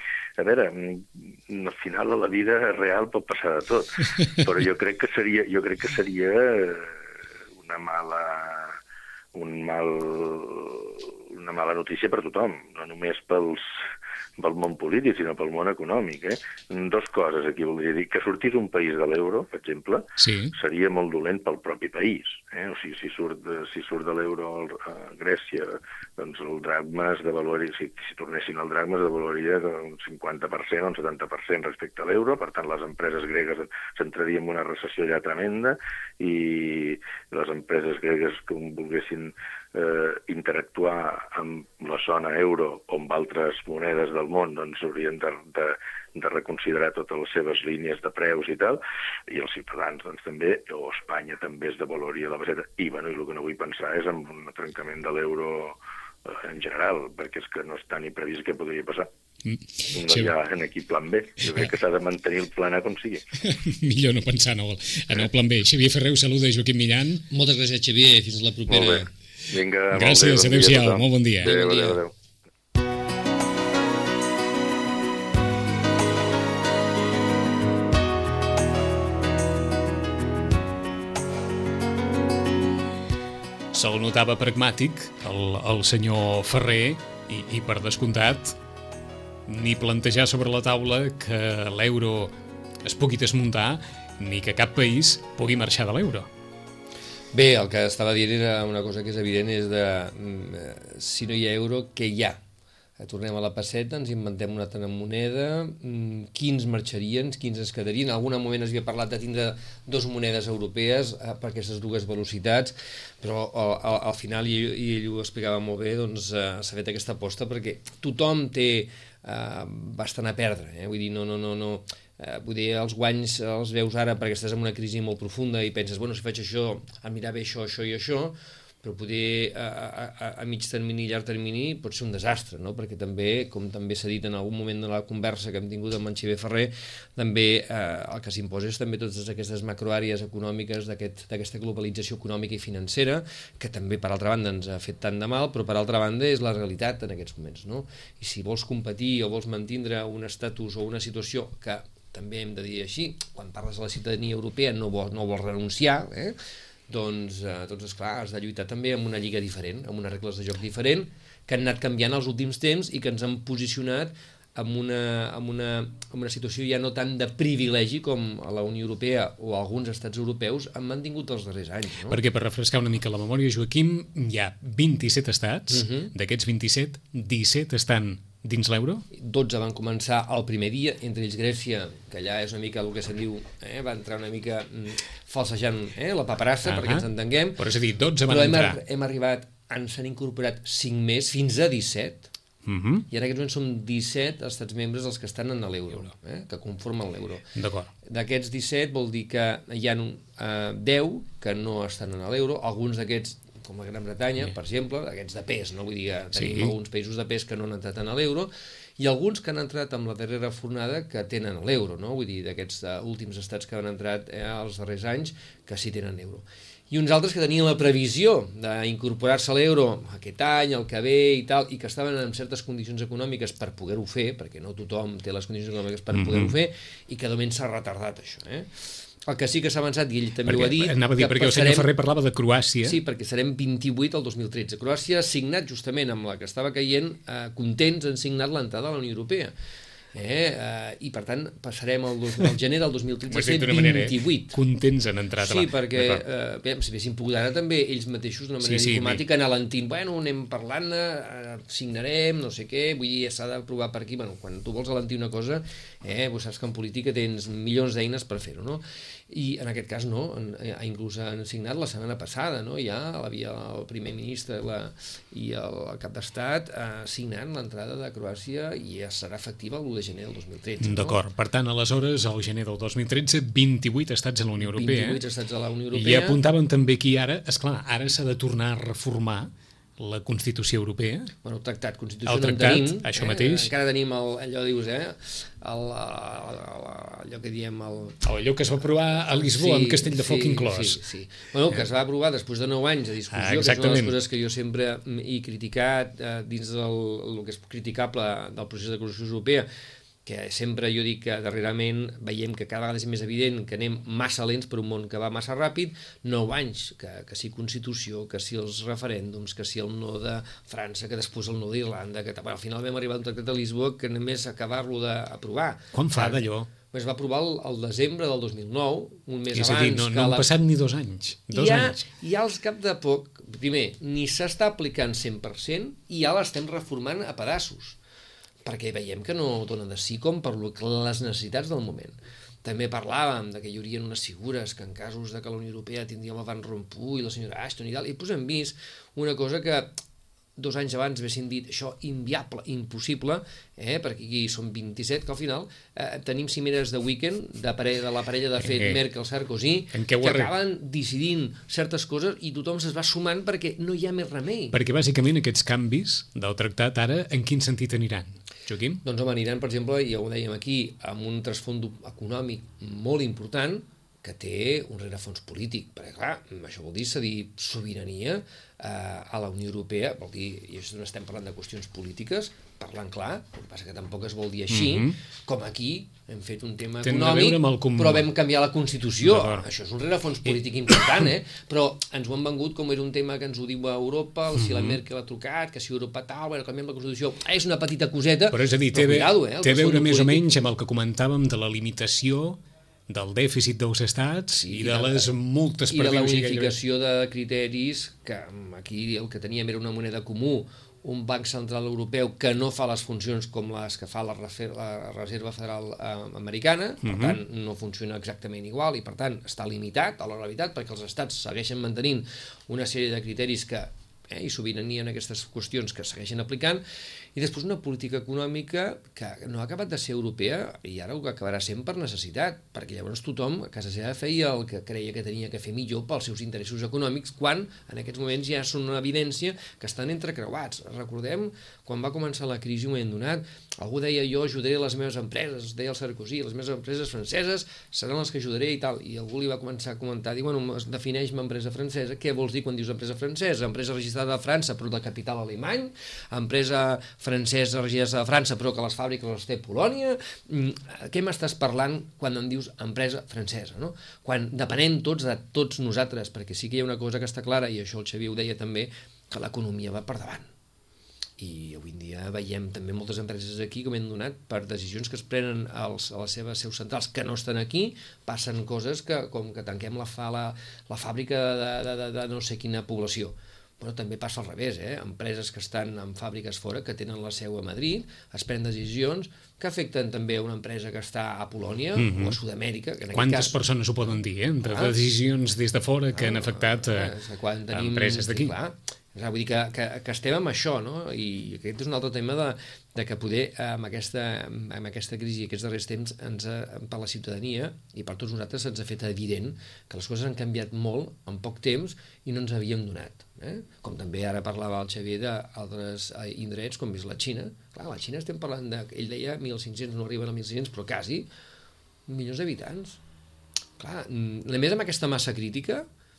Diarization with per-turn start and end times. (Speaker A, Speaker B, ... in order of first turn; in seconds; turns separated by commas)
Speaker A: 0.4-7.0, Speaker A: 7.6-8.8, Speaker A: 9.3-13.7, Speaker A: 14.4-59.1, Speaker B: 20.2-20.5, Speaker B: 59.4-60.3, Speaker A: 59.9-63.2, Speaker B: 63.4-67.3, Speaker C: 67.3-69.1, Speaker A: 68.7-72.1, Speaker B: 69.9-71.8, Speaker C: 71.5-72.0, Speaker B: 83.7-88.6, Speaker B: 89.5-96.3, Speaker C: 97.3-102.4, Speaker C: 103.0-156.4, Speaker C: 156.9-172.2, Speaker B: 172.1-179.1, Speaker C: 175.7-176.1, Speaker C: 179.1-187.7, Speaker B: 186.7-188.8, Speaker C: 188.2-192.3, Speaker B: 192.7-193.1, Speaker C: 193.1-197.5, Speaker B: 197.6-197.9, Speaker C: 198.0-231.9, Speaker B: 206.4-206.7, Speaker B: 226.1-226.5, Speaker B: 230.5-233.0, Speaker C: 232.8-239.5, Speaker C: 240.1-244.6, Speaker B: 243.3-246.2, Speaker C: 245.4-271.2, Speaker B: 248.6-249.2, Speaker B: 270.8-275.2, Speaker C: 274.6-276.4, Speaker B: 275.9-281.3, Speaker C: 281.4-288.2, Speaker B: 282.2-283.7, Speaker B: 288.2-291.0, Speaker C: 289.3-299.7, Speaker B: 293.3-294.2, Speaker C: 300.2-320.5, Speaker B: 315.9-316.7, Speaker B: 319.5-322.1, Speaker C: 321.5-328.0, Speaker C: 328.6-340.0, Speaker C: 340.6-354.8, Speaker B: 348.6-349.0, Speaker B: 349.9-350.5, Speaker B: 354.7-359.0, Speaker C: 359.0-390.4, Speaker B: 374.7-375.1, Speaker B: 377.0-378.3, Speaker B: 379.2-379.6, Speaker B: 384.6-385.0, Speaker B: 388.5-396.8, Speaker C: 394.6-395.3, Speaker C: 395.9-416.8, Speaker B: 407.0-407.4, Speaker C: 417.4-460.5, Speaker C: 461.4-483.6, Speaker B: 482.0-482.4, Speaker B: 483.1-487.1, Speaker C: 484.6-485.0, Speaker C: 486.1-511.3, Speaker B: 487.7-488.5, Speaker C: 512.1-513.0, Speaker C: 513.8-515.9